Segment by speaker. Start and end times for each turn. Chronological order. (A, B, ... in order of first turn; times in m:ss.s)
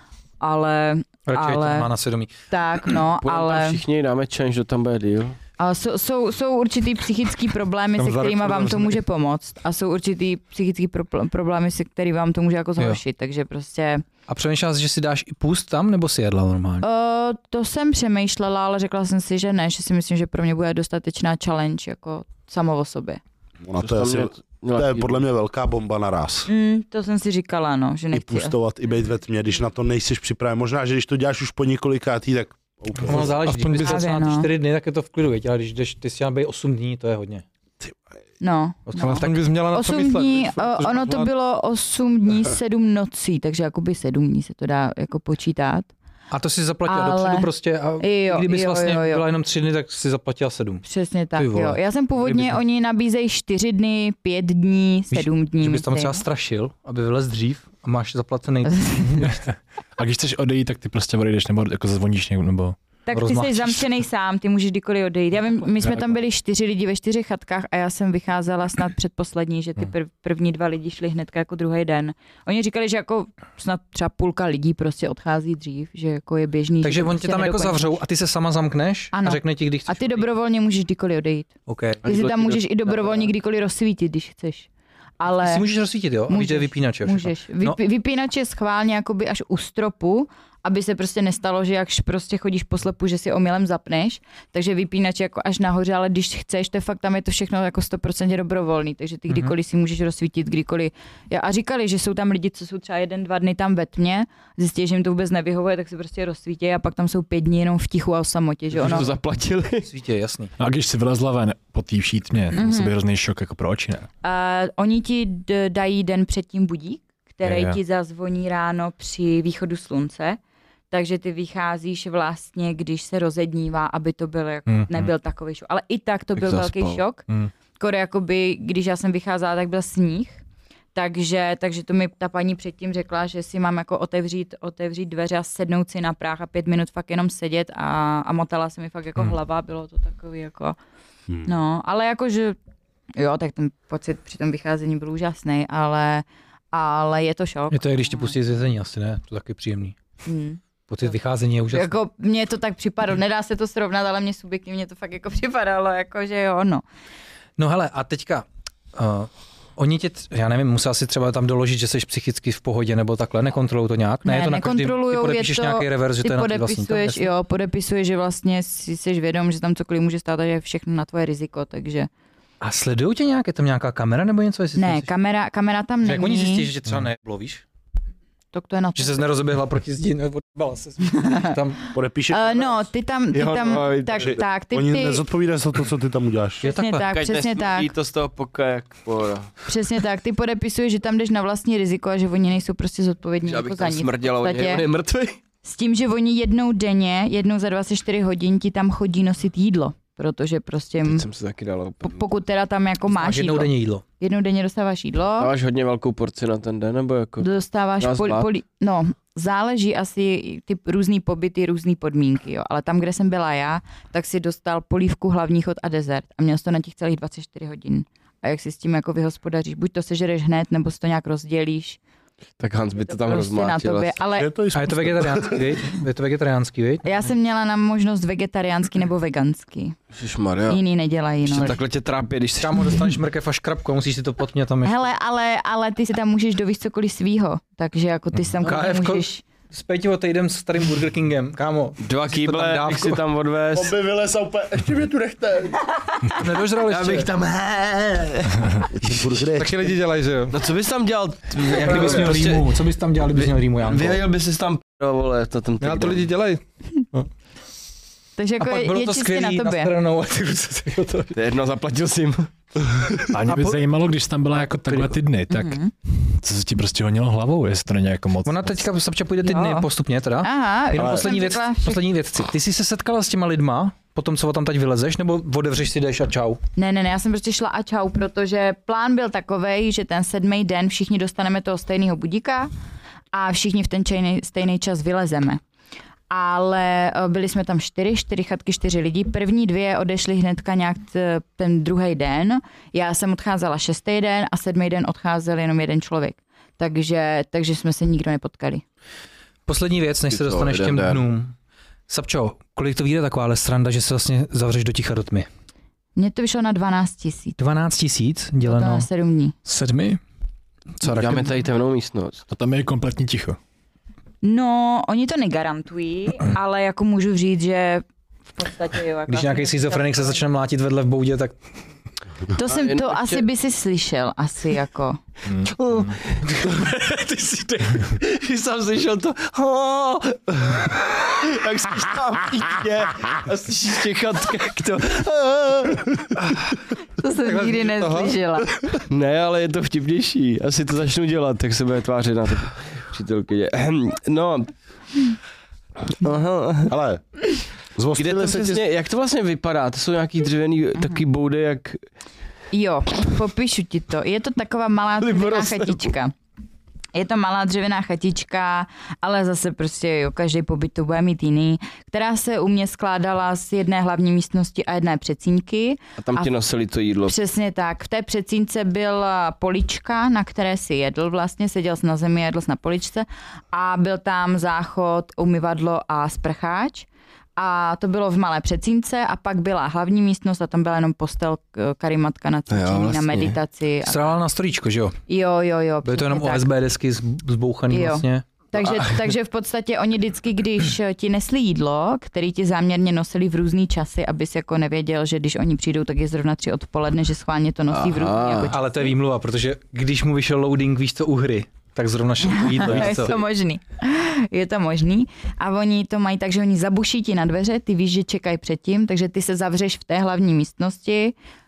0:00.4-0:01.9 A
0:01.2-0:02.3 B
0:02.5-0:03.8 A
0:03.2-0:05.4 C
0:05.6-0:14.0 A
0:08.0-0:09.0 D
0:14.3-0:16.8 B
0:16.8-0:23.2 A
0:23.6-0:26.5 E
0:23.8-0:25.2 C
0:26.5-0:28.5 A
0:28.1-0:33.4 E
0:33.0-0:37.4 B
0:33.1-0:34.0 D
0:33.8-0:34.5 A
0:38.4-0:45.9 A
0:38.9-0:39.3 B
0:39.0-0:41.3 D
0:46.3-0:50.8 B
0:46.8-0:49.2 A
0:50.8-0:56.2 A
0:51.4-0:52.6 B
0:55.1-0:59.3 B
0:58.7-0:59.3 A
0:59.2-1:02.8 F
1:03.0-1:18.0 A
1:03.1-1:03.8 B
1:16.8-1:20.3 B
1:19.1-1:21.5 A
1:21.7-1:22.0 B
1:22.0-1:23.3 C
1:22.0-1:24.7 A
1:25.2-1:25.6 A
1:25.3-1:27.8 B
1:26.3-1:49.1 A
1:39.3-1:39.5 B
1:48.7-1:49.9 C
1:49.8-1:50.5 B
1:50.6-1:54.1 F
1:52.5-1:52.9 A
1:54.2-2:00.4 A
1:57.4-1:57.8 F
2:00.9-2:07.2 A
2:04.7-2:05.1 F
2:06.4-2:07.0 C
2:07.8-2:10.4 A
2:10.9-2:20.8 A
2:21.4-2:22.6 A
2:23.2-2:28.3 A
2:27.7-2:30.0 B
2:30.2-2:30.6 A
2:30.9-2:32.0 B
2:31.7-2:36.8 A
2:37.6-2:47.3 B
2:44.2-2:52.1 A
2:52.6-2:55.1 B
2:54.8-2:56.7 A
2:56.0-2:57.6 B
2:58.5-2:59.2 A
2:58.9-3:01.8 B
3:01.9-3:02.8 E
3:02.3-3:05.2 A
3:03.3-3:04.4 C
3:04.2-3:06.7 E
3:06.6-3:07.1 B
3:06.6-3:07.9 A
3:07.1-3:09.5 C
3:09.7-3:14.8 A
3:13.4-3:15.4 C
3:15.6-3:21.2 A
3:21.0-3:22.2 C
3:22.0-3:25.5 A
3:23.1-3:24.0 B
3:25.4-3:27.5 C
3:27.4-3:42.0 A
3:28.0-3:28.5 C
3:42.6-3:44.2 C
3:43.1-3:44.5 A
3:44.3-3:45.7 E
3:44.7-3:47.0 B
3:47.0-3:50.0 A
3:50.1-3:50.8 C
3:50.7-3:51.7 A
3:51.5-3:53.0 C
3:51.5-3:51.8 B
3:52.6-3:55.0 B
3:54.8-3:59.4 A
3:58.6-4:03.2 B
4:02.0-4:03.9 C
4:03.7-4:05.8 E
4:06.3-4:07.3 B
4:06.9-4:08.6 C
4:08.9-4:09.9 E
4:09.6-4:10.6 D
4:10.5-4:12.7 C
4:11.7-4:14.2 B
4:13.3-4:16.2 C
4:15.8-4:16.6 D
4:18.4-4:19.9 A
4:18.6-4:21.3 B
4:21.3-4:22.5 C
4:23.3-4:28.7 F
4:23.5-4:23.8 B
4:24.9-4:25.1 B
4:25.5-4:25.9 A
4:28.4-4:36.6 B
4:29.4-4:29.9 A
4:30.4-4:32.0 A
4:31.0-4:31.3 E
4:36.8-4:42.7 A
4:43.3-4:45.6 A
4:46.3-4:58.8 A
4:59.6-5:01.5 B
5:00.3-5:01.2 C
5:02.1-5:05.5 B
5:06.2-5:07.6 A
5:07.6-5:09.1 B
5:08.6-5:09.5 A
5:09.7-5:10.2 B
5:11.0-5:11.5 B
5:11.0-5:12.4 C
5:12.5-5:13.6 F
5:14.4-5:18.0 A
5:18.5-5:20.4 A
5:19.3-5:21.5 B
5:22.5-5:25.2 A
5:22.6-5:23.4 C
5:25.5-5:26.1 F
5:25.7-5:36.2 C
5:37.2-5:38.7 A
5:37.4-5:38.4 D
5:39.1-5:44.7 C
5:46.1-5:46.9 C
5:46.9-5:47.2 E
5:48.0-5:48.8 E
5:48.2-5:52.0 C
5:52.7-5:56.3 A
5:55.2-5:56.1 C
5:57.1-6:06.5 A
6:06.2-6:07.4 C
6:07.2-6:17.0 A
6:17.6-6:24.2 A
6:22.7-6:23.6 C
6:24.0-6:25.2 B
6:25.3-6:26.7 A
6:26.0-6:28.5 B
6:27.9-6:39.1 A
6:28.8-6:29.2 C
6:37.9-6:38.7 C
6:38.7-6:43.4 B
6:42.5-6:51.4 A
6:42.9-6:43.2 C